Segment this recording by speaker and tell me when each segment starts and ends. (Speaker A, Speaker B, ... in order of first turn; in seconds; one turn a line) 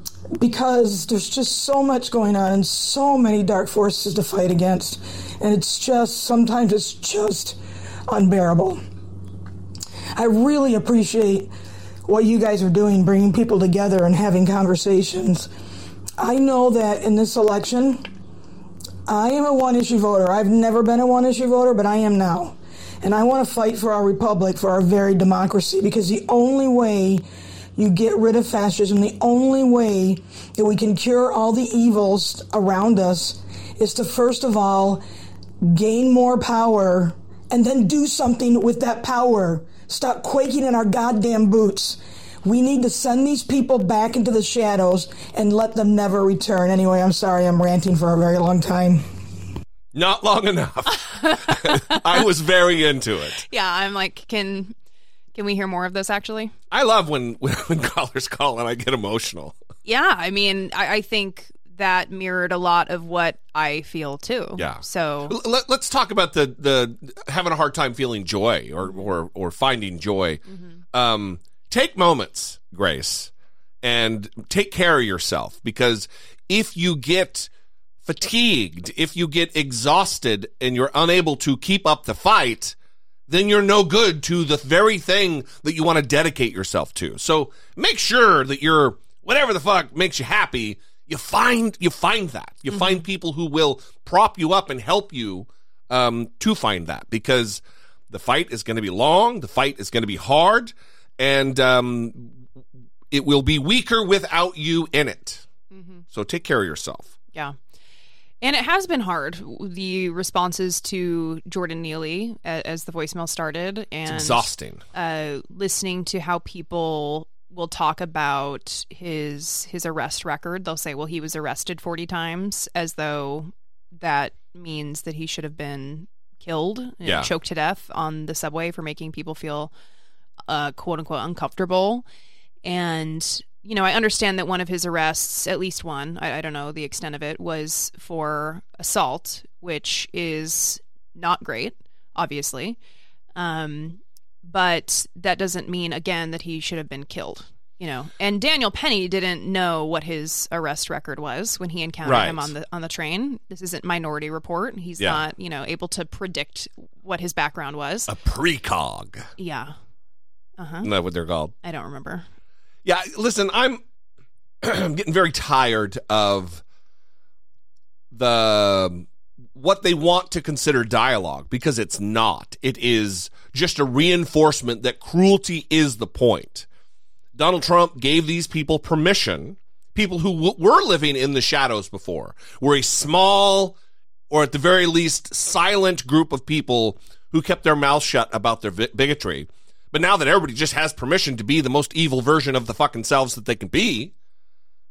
Speaker A: 0.4-8.8
Speaker A: 10.2-11.5
Speaker A: 12.1-15.5
Speaker A: 16.2-18.1
Speaker A: 19.1-27.2
Speaker A: 27.8-35.0
Speaker A: 35.6-49.1
Speaker B: 49.9-53.4
Speaker C: 51.2-52.0
Speaker C: 53.5-54.7
Speaker C: 55.4-56.5
Speaker B: 56.7-59.5
Speaker C: 59.9-65.3
Speaker B: 64.6-70.4
Speaker B: 70.9-73.3
Speaker B: 73.8-77.5
Speaker B: 78.0-82.8
Speaker B: 83.3-102.4
Speaker C: 92.7-93.0
Speaker B: 103.1-105.4
Speaker C: 105.7-106.0
Speaker B: 106.1-107.2
Speaker C: 108.4-129.7
Speaker B: 114.1-114.8
Speaker C: 130.5-132.1
Speaker C: 132.6-142.8
Speaker C: 143.4-158.1
Speaker B: 152.1-152.5
Speaker B: 158.1-159.3
Speaker C: 159.4-159.7
Speaker C: 160.6-160.9
Speaker B: 160.8-161.5
Speaker C: 161.6-162.3
Speaker B: 162.8-163.8
Speaker B: 164.6-166.6
Speaker B: 168.1-176.7
Speaker B: 177.3-183.8
Speaker B: 184.3-194.1